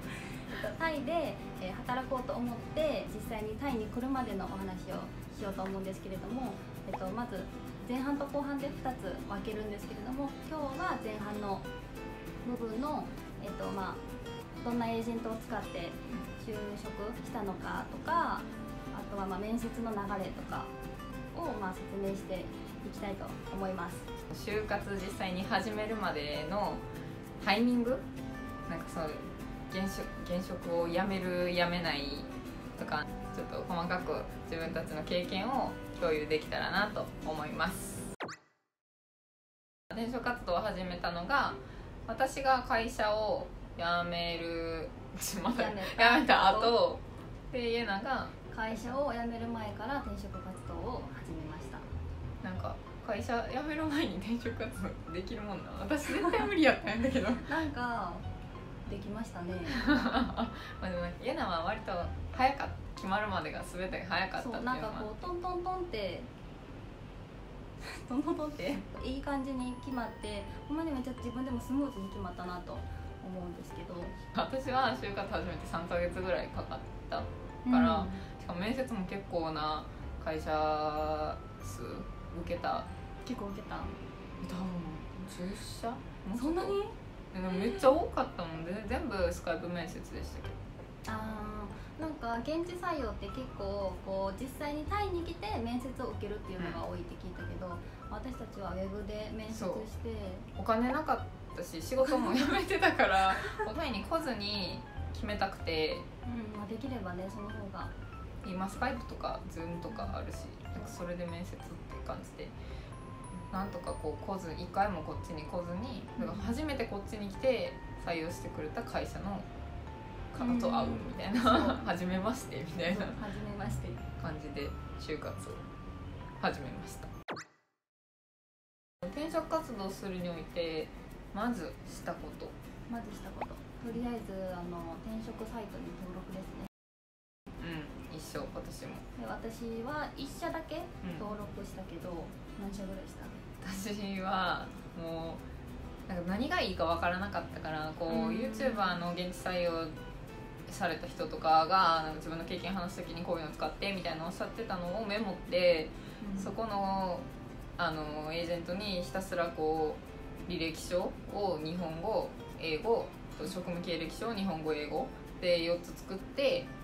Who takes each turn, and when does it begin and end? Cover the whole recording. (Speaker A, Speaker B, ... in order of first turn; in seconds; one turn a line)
Speaker A: 0.5-11.7
Speaker A: 12.4-14.0
Speaker A: 14.6-20.7
Speaker A: 21.3-24.1
Speaker B: 24.3-26.8
Speaker B: 27.4-28.0
Speaker B: 28.7-38.1
Speaker B: 39.9-49.0
Speaker A: 45.5-46.8
Speaker A: 48.5-51.9
Speaker B: 52.4-57.5
Speaker A: 57.5-58.2
Speaker A: 58.9-59.8
Speaker B: 59.7-65.1
Speaker A: 64.4-66.3
Speaker A: 67.8-74.2
Speaker B: 74.3-82.9
Speaker A: 77.6-78.2
Speaker A: 83.2-83.9
Speaker B: 84.4-86.8
Speaker A: 86.3-86.9
Speaker B: 87.3-90.6
Speaker A: 87.5-87.8
Speaker A: 91.0-100.5
Speaker B: 99.5-99.9
Speaker B: 100.6-106.1
Speaker A: 102.1-102.5
Speaker A: 106.2-107.9
Speaker B: 108.4-112.5
Speaker A: 109.9-110.1
Speaker B: 113.5-119.5
Speaker A: 116.2-116.5
Speaker B: 120.3-123.2
Speaker A: 120.4-121.8
Speaker A: 122.8-124.0
Speaker B: 124.2-125.7
Speaker B: 126.4-127.1
Speaker B: 129.0-132.5
Speaker A: 132.9-136.7
Speaker B: 137.6-139.0
Speaker A: 139.2-143.6
Speaker B: 141.0-141.3
Speaker B: 143.6-145.4
Speaker B: 146.1-149.9
Speaker A: 148.1-149.0
Speaker B: 150.7-166.7
Speaker A: 156.2-156.5